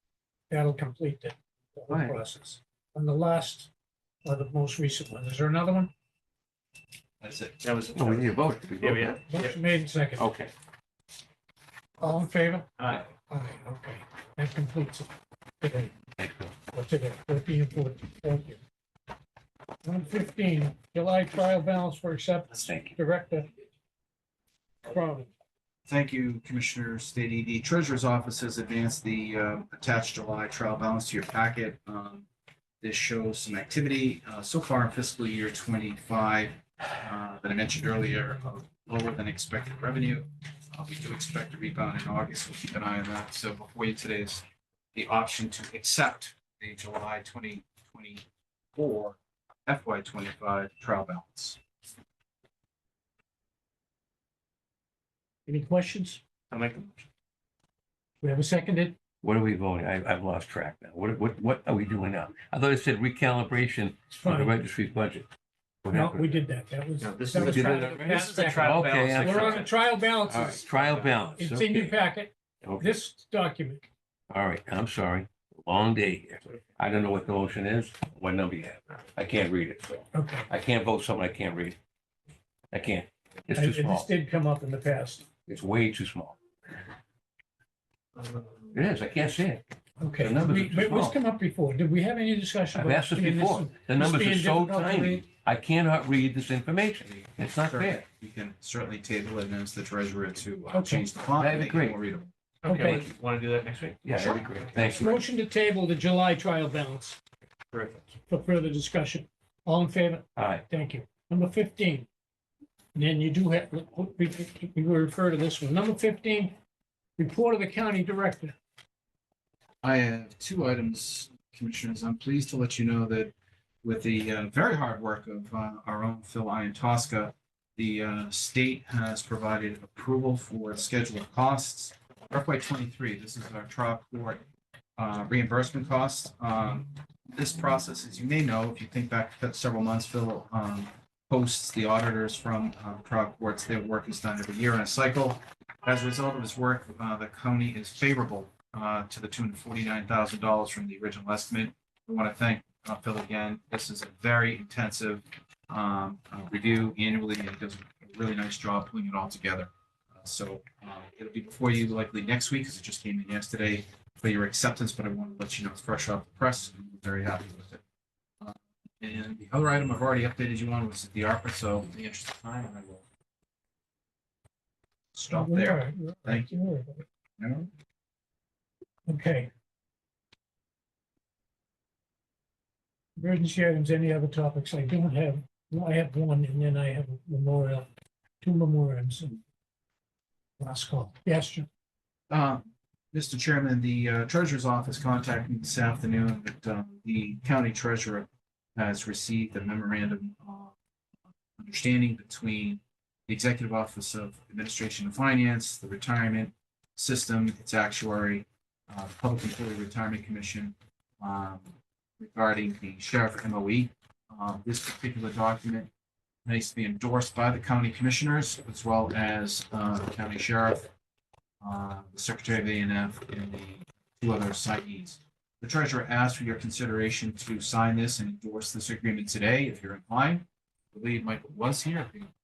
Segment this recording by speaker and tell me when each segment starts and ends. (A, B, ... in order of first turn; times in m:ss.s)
0:00.5-0:03.7 A
0:01.9-0:02.2 B
0:04.2-0:05.9 A
0:07.2-0:07.6 C
0:07.6-0:09.6 D
0:08.0-0:09.2 B
0:09.3-0:10.3 A
0:10.2-0:10.5 B
0:12.0-0:12.7 A
0:12.8-0:13.0 D
0:13.3-0:15.1 A
0:15.6-0:15.9 A
0:16.2-0:16.5 B
0:16.7-0:18.6 A
0:19.8-0:23.5 A
0:22.5-0:23.0 B
0:24.8-0:25.3 A
0:25.9-0:32.3 C
0:32.8-0:48.2 C
0:48.8-0:51.6 C
0:55.5-0:56.2 A
0:56.5-0:57.0 D
0:58.2-0:59.0 A
0:59.2-1:05.3 B
1:04.1-1:04.6 A
1:05.8-1:06.4 B
1:05.9-1:13.9 A
1:07.0-1:09.8 D
1:07.4-1:09.7 B
1:10.3-1:11.9 B
1:10.5-1:11.1 D
1:14.3-1:21.8 B
1:20.1-1:20.5 A
1:22.7-1:24.1 B
1:23.6-1:25.3 A
1:25.5-1:26.4 B
1:28.7-1:29.6 B
1:30.0-1:35.2 A
1:30.2-1:31.2 B
1:32.7-1:38.0 B
1:37.0-1:42.3 C
1:40.7-1:41.1 A
1:41.4-1:42.0 B
1:42.6-1:43.1 A
1:42.6-1:45.0 D
1:42.8-1:43.1 B
1:43.9-1:45.2 B
1:45.0-1:47.2 A
1:47.7-1:48.1 D
1:48.3-1:52.1 A
1:50.4-1:50.6 B
1:53.0-1:56.6 A
1:57.2-1:58.6 A
1:59.8-2:14.4 C
2:15.0-2:47.8 C
2:48.4-2:53.0 C
2:55.1-2:56.5 C
2:55.3-2:57.0 A
2:57.4-2:57.7 C
2:59.1-2:59.5 A
3:03.2-3:07.9 A
3:08.4-3:09.4 A
3:10.6-3:11.7 A
3:12.3-3:20.7 C
3:21.6-3:35.9 C
3:36.4-3:40.9 C
3:41.6-3:52.3 C